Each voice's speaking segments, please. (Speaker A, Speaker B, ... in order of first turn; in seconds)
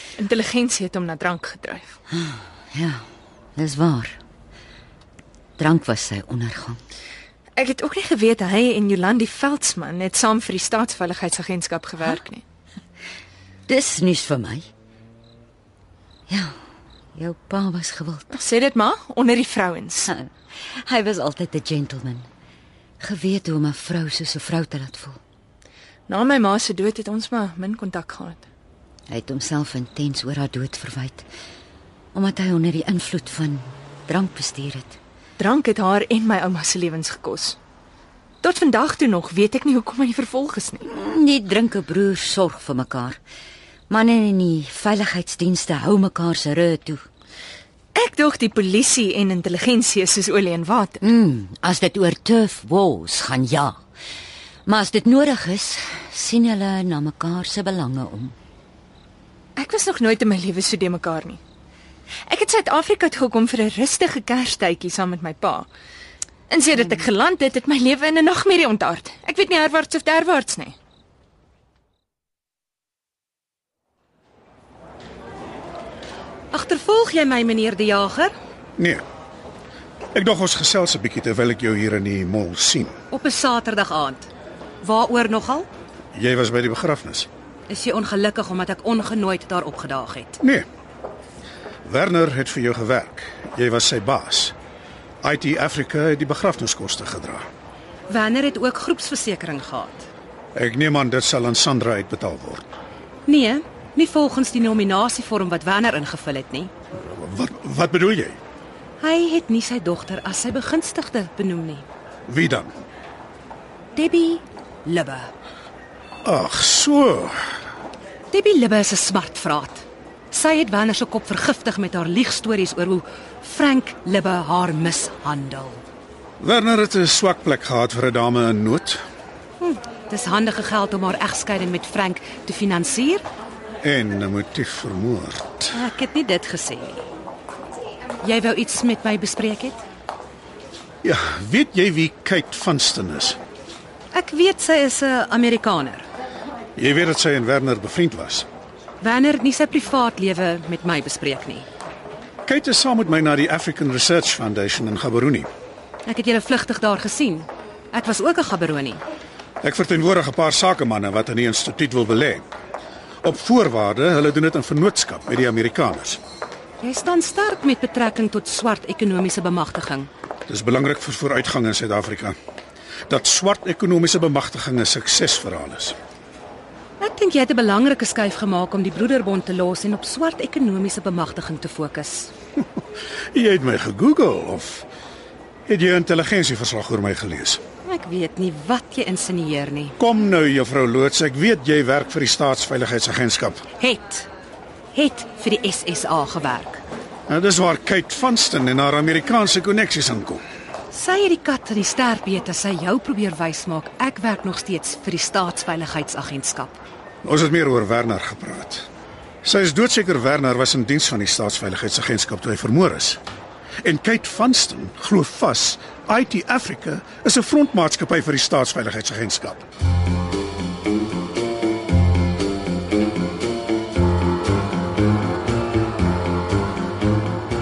Speaker A: 0.2-1.9, 7.5-12.4, 18.3-20.1, 26.1-28.4, 35.4-37.6, 38.4-40.8, 47.9-51.0, 59.5-61.4, 62.3-65.7, 66.5-70.7
Speaker B: 2.1-3.0, 3.5-4.2, 5.6-6.8, 13.7-14.7, 16.3-16.5, 17.1-18.3, 20.8-22.2, 23.0-25.2, 29.1-31.2, 32.1-35.0, 40.8-43.2, 43.9-47.0, 51.0-53.8, 54.6-58.3
Speaker C: 76.5-78.3, 83.1-84.3, 84.8-85.7, 87.7-90.4, 98.1-100.0, 103.2-106.7, 109.0-111.8, 113.9-115.3, 118.3-125.8, 129.6-133.2, 135.7-137.1, 138.2-139.8, 144.1-146.1, 149.0-151.7, 156.1-159.0, 166.8-170.1, 177.0-182.3, 187.8-189.9, 193.8-194.3, 194.9-196.8, 200.9-206.8
Speaker D: 78.8-79.0, 80.1-82.9, 86.1-87.3, 90.4-90.7, 91.8-94.5, 95.2-97.4, 100.5-102.7, 106.9-108.4, 112.3-112.7, 116.2-117.4, 126.4-129.0, 133.8-135.7, 141.0-143.4, 146.8-148.5, 152.4-155.5, 159.6-162.4, 163.2-166.2, 170.5-172.3, 173.1-176.0, 182.6-184.9, 185.7-187.6, 190.0-193.6, 197.3-200.4, 207.2-208.9, 209.4-213.2, 213.8-219.7